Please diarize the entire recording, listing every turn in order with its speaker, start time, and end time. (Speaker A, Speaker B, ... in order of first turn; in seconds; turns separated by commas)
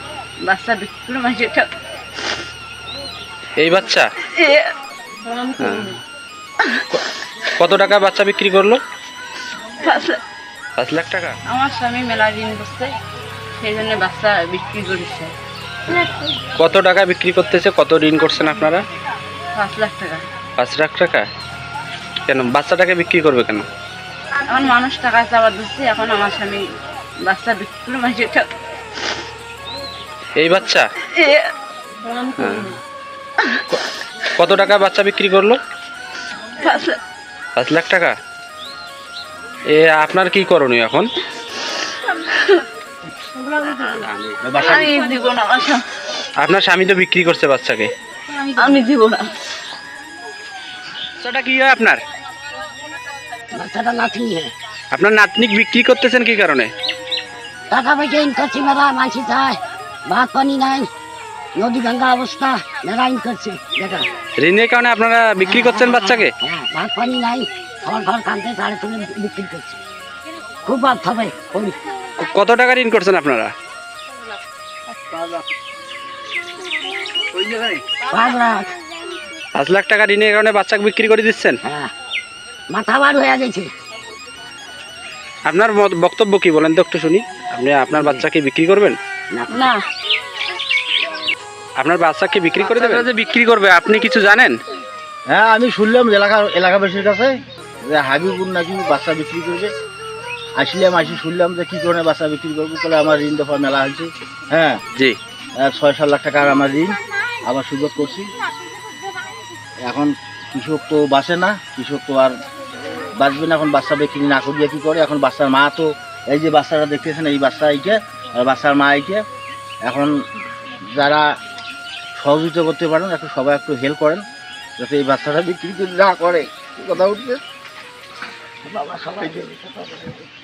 Speaker A: 0.5-1.7, Speaker B: 3.6-4.1, Speaker A: 4.3-4.7, Speaker B: 5.6-6.0, Speaker B: 7.6-8.8, Speaker A: 9.8-10.2, Speaker B: 10.8-11.3, Speaker A: 11.5-12.9, Speaker A: 13.6-15.3, Speaker B: 16.6-18.9, Speaker A: 19.6-20.2, Speaker B: 20.6-21.2, Speaker B: 22.3-23.6, Speaker A: 24.5-26.6, Speaker A: 27.3-28.5, Speaker B: 30.4-30.9, Speaker A: 31.1-31.5, Speaker B: 32.4-32.8, Speaker B: 34.4-35.6, Speaker A: 36.6-37.0, Speaker B: 37.6-38.1, Speaker B: 39.7-41.1, Speaker A: 42.1-42.6, Speaker B: 43.9-44.4, Speaker C: 44.4-45.0, Speaker A: 44.6-45.8, Speaker B: 46.4-47.9, Speaker A: 48.4-49.3, Speaker B: 51.2-52.0, Speaker D: 53.5-54.5, Speaker B: 54.9-56.7, Speaker D: 57.7-60.9, Speaker D: 61.6-64.1, Speaker B: 64.4-66.3, Speaker D: 65.4-69.8, Speaker D: 70.7-71.8, Speaker B: 72.2-73.5, Speaker D: 78.1-78.7, Speaker B: 79.5-81.6, Speaker D: 81.6-81.9, Speaker D: 82.7-83.7, Speaker B: 85.5-89.0, Speaker D: 87.9-88.2, Speaker D: 89.3-89.7, Speaker A: 89.5-89.8, Speaker B: 91.8-94.6, Speaker C: 95.3-99.7, Speaker C: 100.6-104.8, Speaker C: 105.6-108.4, Speaker C: 109.8-112.3, Speaker C: 113.2-119.2, Speaker C: 119.8-120.2, Speaker C: 120.9-121.3, Speaker C: 122.2-124.2, Speaker C: 124.8-127.4, Speaker D: 128.7-130.1, Speaker C: 129.2-129.5